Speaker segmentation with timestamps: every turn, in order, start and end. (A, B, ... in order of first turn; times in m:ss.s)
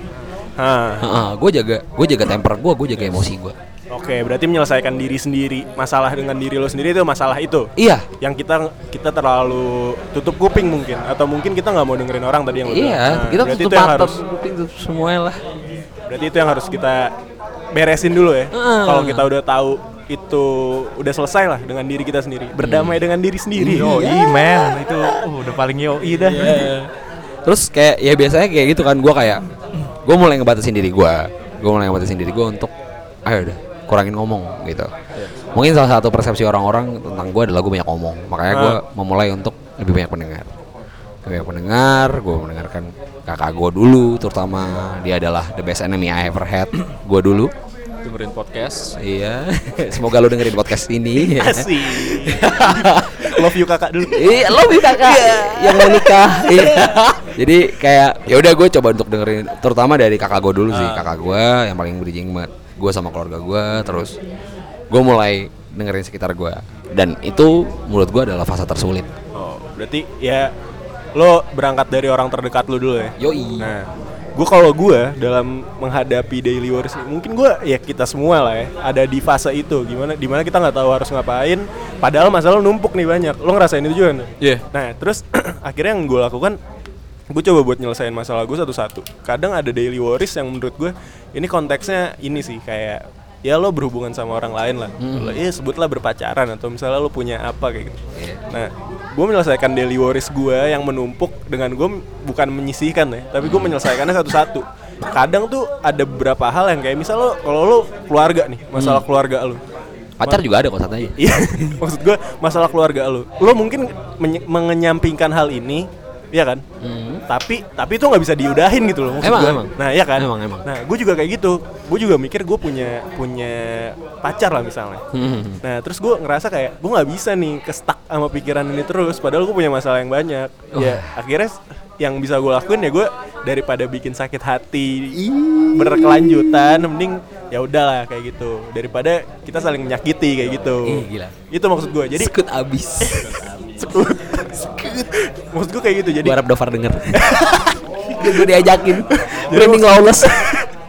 0:00.6-0:01.0 A
0:01.0-0:03.6 B
0:03.9-0:07.7 A
0:07.8-0:08.0 B
0:08.2-0:14.2 A
0:12.7-0:15.4 B
0:16.1-0:17.1 A
0:17.7-0:24.0 A
0:18.5-0:19.3 B
0:22.6-0:23.0 B
0:23.6-0:24.8 B
0:23.6-0:26.7 C
0:26.3-0:26.9 B
0:27.4-0:29.4 B
0:30.0-0:32.7 B
0:33.2-0:34.9 B
0:35.5-0:40.5 B
0:38.5-0:38.8 A
0:41.2-0:47.5 B
0:48.0-0:49.0 C
0:49.0-0:53.5 B
0:51.2-0:55.6 A
0:54.1-1:04.2 B
0:55.0-0:57.0 C
1:00.7-1:01.1 C
1:04.9-1:09.1 B
1:09.3-1:10.5 A
1:11.1-1:26.6 A
1:13.2-1:13.7 B
1:27.3-1:38.0 A
1:35.0-1:35.4 B
1:38.1-1:38.4 B
1:38.5-1:49.6 A
1:43.4-1:43.8 B
1:48.7-1:49.0 B
1:50.2-1:51.7 B
1:51.2-1:56.6 A
1:56.8-1:57.2 B
1:57.3-2:05.0 A
1:59.2-2:00.6 B
2:05.1-2:05.6 B
2:05.6-2:22.3 A
2:10.7-2:11.1 B
2:15.2-2:16.8 B
2:20.8-2:21.3 B
2:22.1-2:23.3 B
2:23.2-2:23.9 C
2:23.8-2:26.4 A
2:26.2-2:30.6 B
2:29.2-2:30.6 A